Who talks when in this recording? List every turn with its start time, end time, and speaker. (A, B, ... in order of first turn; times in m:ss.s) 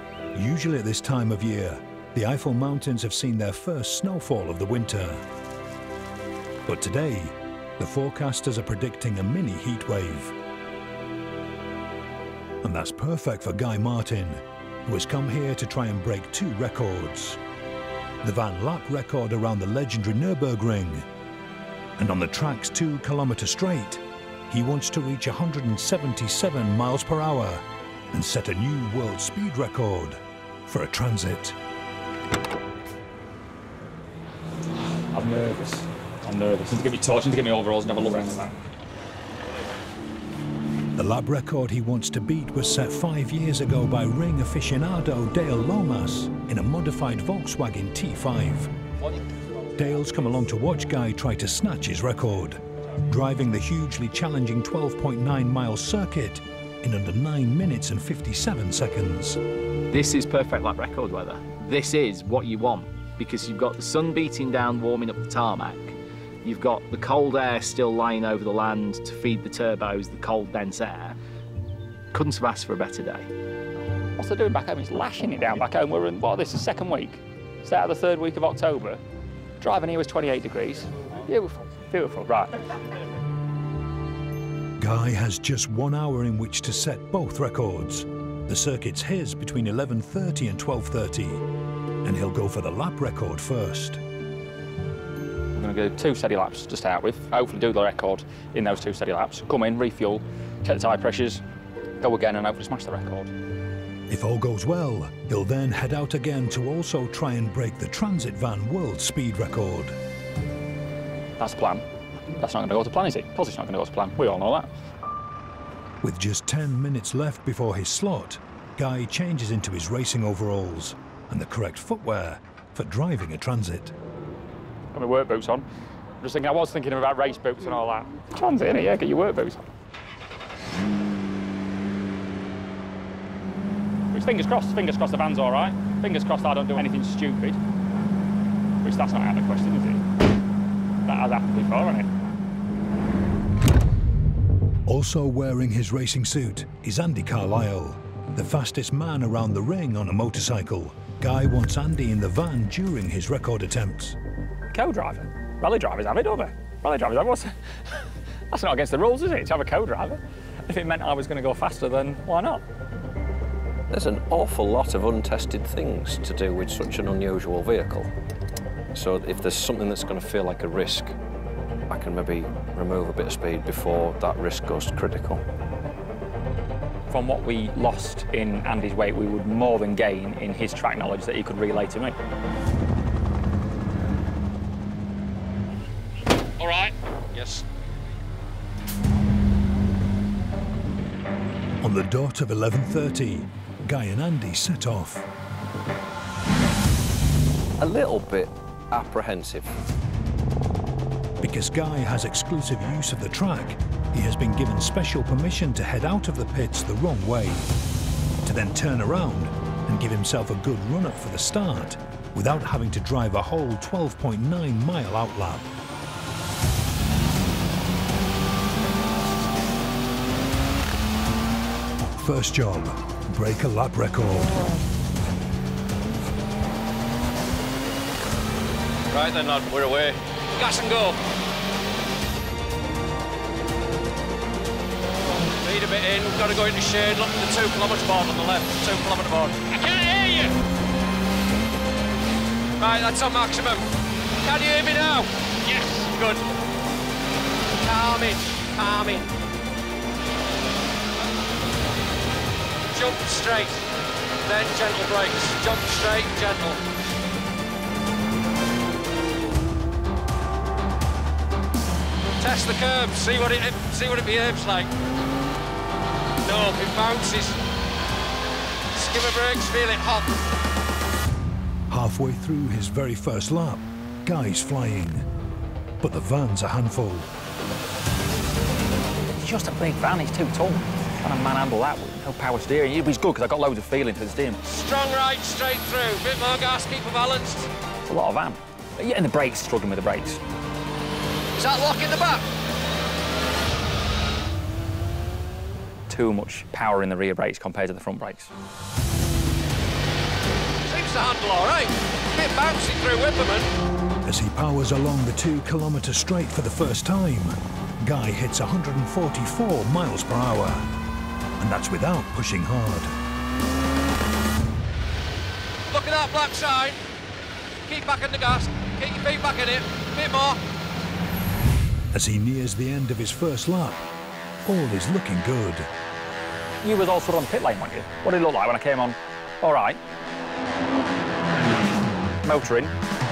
0:00.3-0:05.2 A
0:06.7-0:10.4 A
0:12.6-0:17.4 A
0:18.2-0:21.0 A
0:22.0-0:31.5 A
0:35.1-0:38.6 B
0:41.0-0:48.7 A
0:49.8-0:59.4 A
0:59.9-1:11.2 C
1:12.1-1:13.3 C
1:14.2-1:19.0 B
1:19.6-1:22.6 B
1:24.8-1:31.4 A
1:32.0-1:34.0 A
1:35.5-1:41.4 B
1:42.0-1:43.3 B
1:44.1-1:50.0 A
1:51.4-1:51.8 B
1:52.4-1:54.7 B
1:56.0-2:03.9 A
2:04.9-2:05.6 B
2:06.2-2:09.6 B
2:14.1-2:17.6 B
2:18.8-2:20.0 B
2:21.0-2:22.1 B
2:24.8-2:34.2 A
2:34.7-2:37.6 B
2:38.5-2:42.6 B
2:43.9-2:48.1 D
2:48.9-2:51.1 D
2:51.9-2:55.4 D
2:57.1-3:02.2 B
3:06.6-3:07.6 E
3:11.8-3:15.3 A
3:17.8-3:19.8 D
3:21.4-3:27.7 A
3:28.4-3:35.7 A
3:42.0-3:44.6 A
3:49.1-3:51.2 E
3:55.6-4:00.6 E
4:02.8-4:03.9 E
4:04.4-4:06.4 E
4:07.8-4:09.3 E
4:12.9-4:13.8 E
4:14.4-4:16.8 E
4:22.4-4:24.9 E
4:26.4-4:27.6 E
4:28.9-4:30.3 E
4:31.9-4:35.2 A
4:36.0-4:37.3 A
4:39.3-4:44.6 B
4:44.6-4:47.7 E
4:48.0-4:50.4 B
4:51.6-4:52.5 E
4:56.1-4:58.5 B
5:00.8-5:03.7 E
5:04.2-5:10.9 A
5:11.6-5:13.1 A
5:15.9-5:17.0 E
5:17.9-5:20.6 E
5:22.1-5:24.0 A
5:24.6-5:25.9 A
5:26.8-5:30.0 B
5:32.4-5:32.9 B